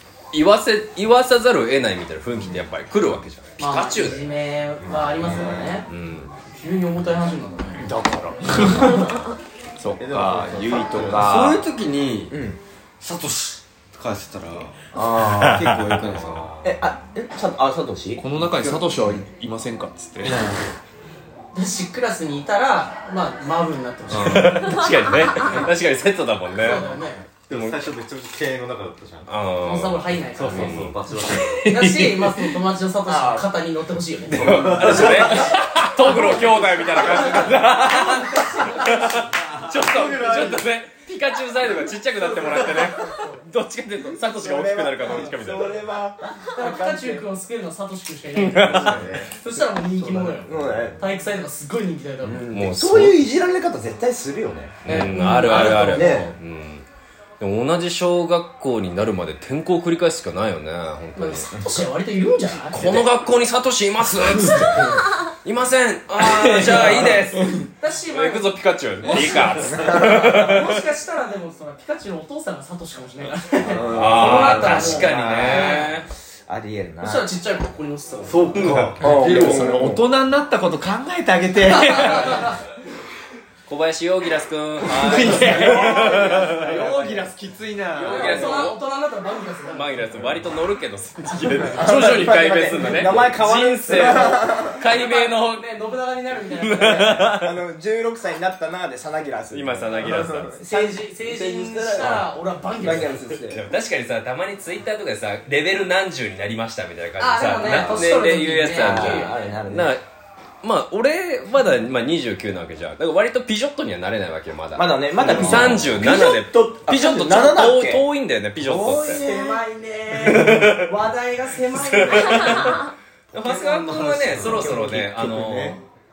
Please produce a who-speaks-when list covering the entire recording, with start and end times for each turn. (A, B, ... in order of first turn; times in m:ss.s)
0:00.3-0:04.2 A
0:03.6-0:05.9 B
0:04.8-0:05.8 C
0:05.8-0:06.3 A
0:06.5-0:07.8 B
0:07.8-0:09.2 D
0:09.8-0:11.6 D
0:10.0-0:11.4 C
0:11.0-0:12.4 E
0:12.3-0:12.6 F
0:13.0-0:16.6 E
0:15.9-0:16.4 C
0:16.6-0:18.2 F
0:18.2-0:20.4 D
0:20.2-0:20.6 E
0:21.5-0:24.9 B
0:24.1-0:24.6 C
0:24.3-0:26.9 A
0:26.6-0:27.2 B
0:27.5-0:29.3 C
0:27.5-0:27.9 A
0:29.3-0:31.0 A
0:29.6-0:30.9 B
0:30.3-0:31.5 C
0:31.4-0:32.5 D
0:31.6-0:35.3 B
0:34.3-0:45.8 A
0:34.3-0:35.4 C
0:36.1-0:39.2 B
0:39.4-0:40.7 C
0:42.1-0:43.4 B
0:44.3-0:47.3 F
0:46.5-0:52.5 B
0:48.4-0:49.1 A
0:48.6-0:49.3 C
0:49.9-0:51.0 C
0:50.4-0:51.0 F
0:52.2-0:56.3 F
0:52.5-0:53.2 A
0:54.8-0:56.8 A
0:54.9-0:56.2 B
0:57.4-1:01.7 A
1:01.1-1:02.8 B
1:02.7-1:07.4 A
1:06.2-1:07.6 D
1:06.6-1:07.1 B
1:07.8-1:16.0 B
1:08.1-1:10.8 A
1:09.0-1:09.4 D
1:09.7-1:10.1 F
1:13.6-1:15.6 F
1:13.9-1:16.1 A
1:14.9-1:15.4 D
1:16.5-1:17.3 F
1:17.0-1:18.7 B
1:18.2-1:19.7 C
1:18.7-1:20.0 F
1:19.1-1:22.5 D
1:21.6-1:22.6 B
1:23.7-1:26.9 A
1:24.8-1:28.6 D
1:25.3-1:27.3 B
1:27.9-1:28.8 A
1:28.0-1:30.4 B
1:29.6-1:35.6 A
1:31.7-1:34.8 F
1:34.6-1:37.3 B
1:36.6-1:37.4 A
1:37.3-1:42.2 F
1:39.5-1:40.5 A
1:40.5-1:43.3 B
1:42.8-1:43.6 F
1:42.8-1:50.0 A
1:47.2-1:49.4 B
1:47.6-1:48.0 F
1:48.8-1:49.9 F
1:50.6-1:59.2 A
1:54.8-1:58.1 F
1:58.6-1:59.6 F
1:59.0-2:02.8 B
2:00.2-2:00.9 A
2:01.8-2:02.8 A
2:03.3-2:05.8 A
2:03.3-2:05.8 C